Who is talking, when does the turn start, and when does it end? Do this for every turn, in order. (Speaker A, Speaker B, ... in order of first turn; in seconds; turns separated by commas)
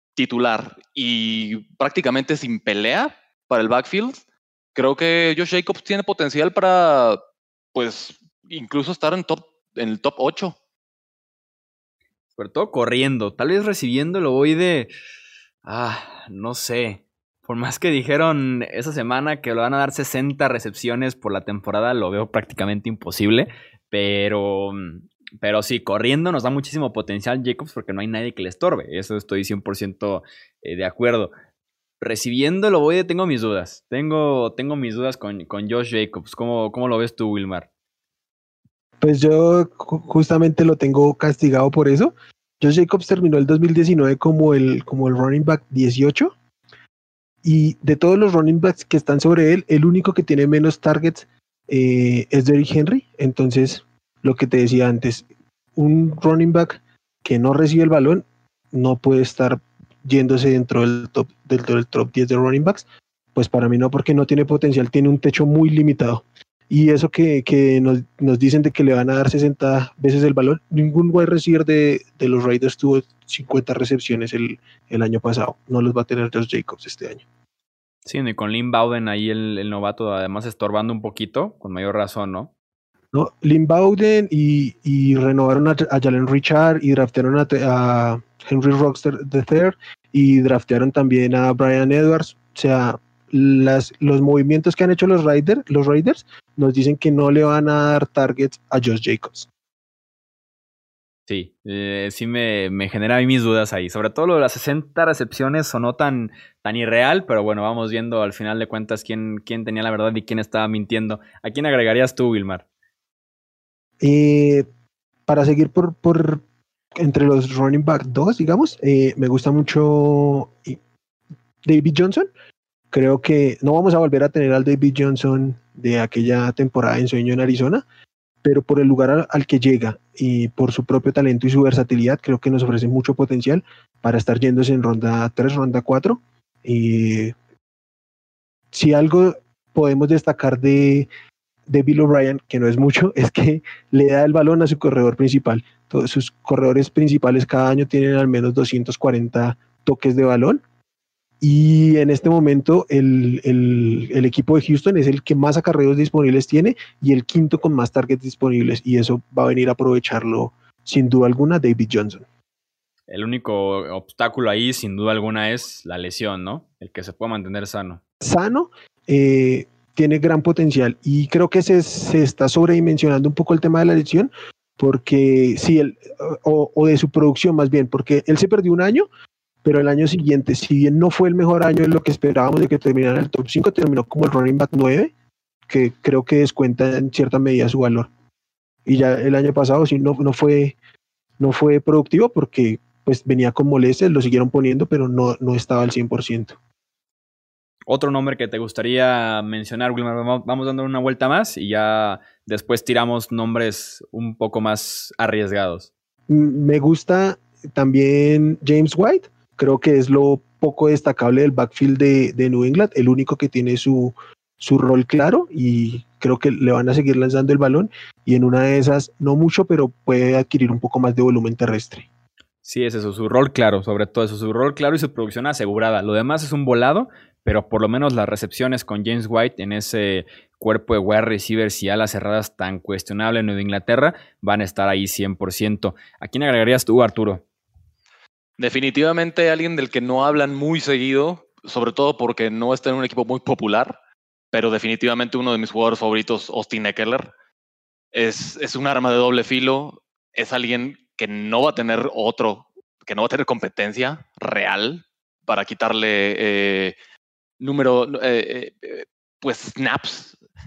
Speaker A: 0.2-4.2, Speaker A: 4.8-7.2, Speaker A: 7.7-10.6, Speaker B: 12.4-14.9, Speaker B: 15.7-31.3, Speaker B: 32.0-37.7, Speaker C: 39.0-46.4, Speaker C: 47.4-77.2, Speaker B: 78.0-82.5, Speaker C: 83.1-99.5, Speaker B: 101.3-112.7, Speaker C: 114.0-114.7, Speaker C: 115.3-116.4, Speaker C: 117.0-120.8, Speaker C: 121.7-122.3, Speaker C: 122.9-127.8, Speaker C: 128.4-137.4, Speaker C: 138.7-141.1, Speaker C: 141.7-150.6, Speaker C: 151.4-162.2, Speaker B: 163.1-168.0, Speaker C: 168.2-179.1, Speaker C: 179.6-185.1, Speaker C: 185.7-188.1, Speaker C: 188.9-190.8, Speaker C: 191.4-196.6, Speaker B: 197.9-205.9, Speaker C: 206.3-222.1, Speaker B: 222.7-237.4, Speaker A: 238.6-243.9, Speaker A: 244.5-247.3, Speaker A: 248.1-257.0, Speaker A: 257.6-260.4